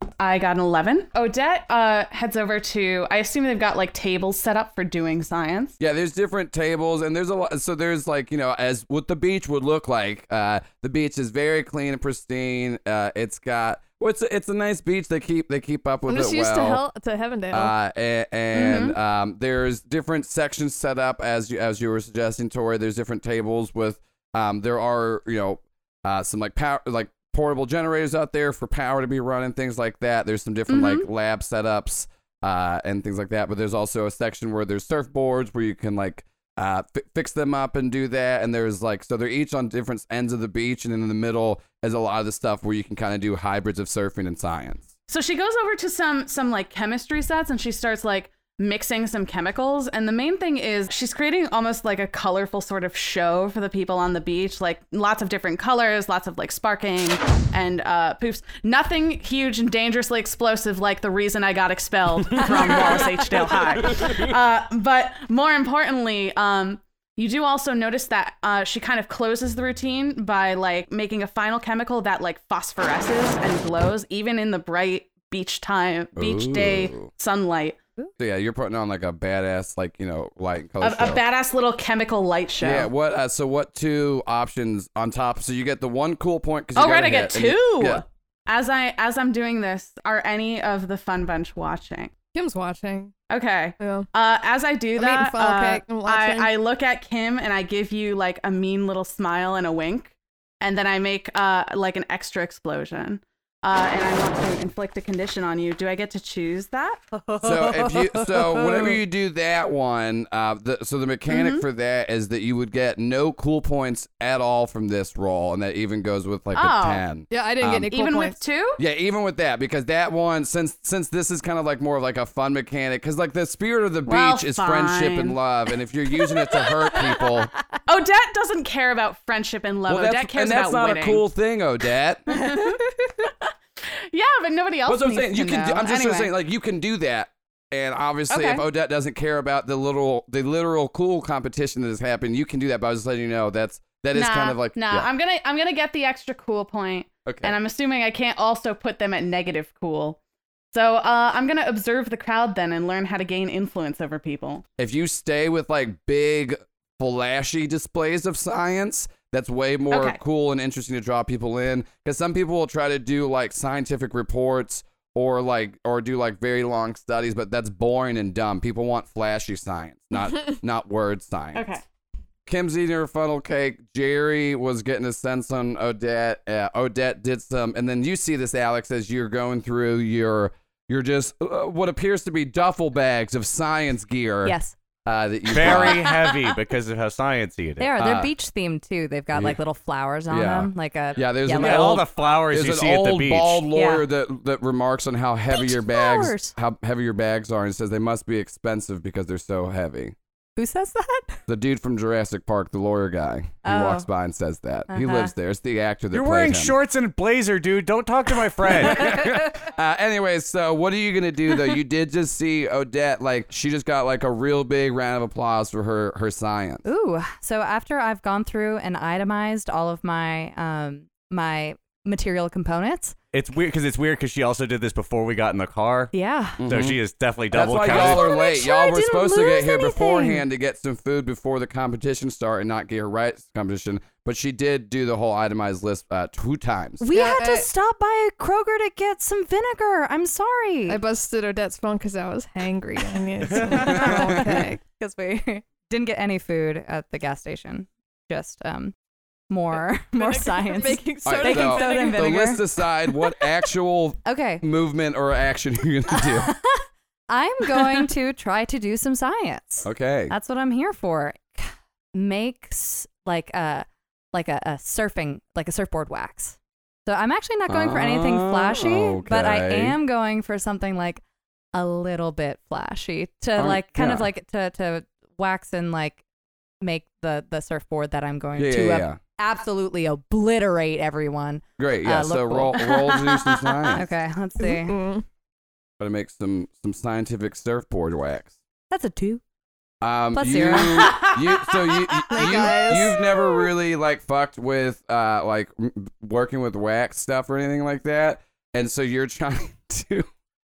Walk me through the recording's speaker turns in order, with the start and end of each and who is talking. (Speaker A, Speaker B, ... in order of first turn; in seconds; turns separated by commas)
Speaker A: 0.2-5.8, Speaker B: 5.8-16.8, Speaker C: 16.1-17.7, Speaker B: 17.5-44.9, Speaker A: 18.5-19.0, Speaker A: 30.7-31.1, Speaker A: 45.1-77.8, Speaker B: 76.2-77.1, Speaker B: 78.2-81.2, Speaker A: 80.8-82.9, Speaker B: 82.6-88.0, Speaker A: 86.8-92.1, Speaker C: 92.3-93.1, Speaker A: 93.3-107.0, Speaker C: 93.8-94.1, Speaker C: 95.0-96.5, Speaker D: 107.2-108.9, Speaker B: 107.4-117.9, Speaker A: 111.3-111.6, Speaker A: 116.5-117.0, Speaker C: 117.3-118.4, Speaker A: 117.9-118.8, Speaker B: 118.8-127.5, Speaker A: 124.0-125.4, Speaker A: 127.9-131.2, Speaker B: 129.9-132.5, Speaker A: 132.3-133.5, Speaker A: 134.1-136.3, Speaker B: 134.9-145.1, Speaker A: 138.3-138.7, Speaker A: 144.1-150.2, Speaker B: 147.3-147.5, Speaker A: 150.7-154.7, Speaker B: 154.8-171.7, Speaker A: 159.9-160.2, Speaker A: 171.5-171.8, Speaker B: 172.5-186.1, Speaker D: 184.4-184.8, Speaker E: 185.5-187.9, Speaker D: 187.8-191.9, Speaker B: 188.0-188.3, Speaker B: 189.3-189.6, Speaker B: 190.3-200.2, Speaker E: 191.6-193.7, Speaker D: 193.7-194.1, Speaker D: 195.5-196.5, Speaker D: 200.6-201.4, Speaker B: 201.5-206.8, Speaker D: 203.7-204.1, Speaker D: 204.9-205.3, Speaker E: 206.1-209.2, Speaker B: 208.9-216.9, Speaker D: 216.9-223.2, Speaker E: 223.3-226.1, Speaker D: 226.1-226.6, Speaker B: 226.6-227.0, Speaker E: 226.7-228.3, Speaker B: 227.5-237.1, Speaker D: 227.9-230.4, Speaker D: 237.0-241.0, Speaker C: 237.1-237.7, Speaker C: 240.9-244.8, Speaker D: 243.5-248.9, Speaker B: 243.7-244.7, Speaker D: 249.5-252.6, Speaker C: 250.2-252.3, Speaker B: 251.2-256.5, Speaker D: 254.2-254.6, Speaker D: 256.1-271.2, Speaker B: 259.8-260.4, Speaker B: 267.7-270.0, Speaker D: 271.7-276.2, Speaker B: 273.6-274.3, Speaker D: 276.8-283.2, Speaker B: 278.6-279.2, Speaker B: 281.8-284.1, Speaker D: 283.9-285.0, Speaker C: 284.6-285.2, Speaker B: 286.0-288.6, Speaker D: 288.9-289.4, Speaker B: 290.0-300.3, Speaker D: 290.3-291.3, Speaker D: 292.3-293.2, Speaker C: 292.4-292.9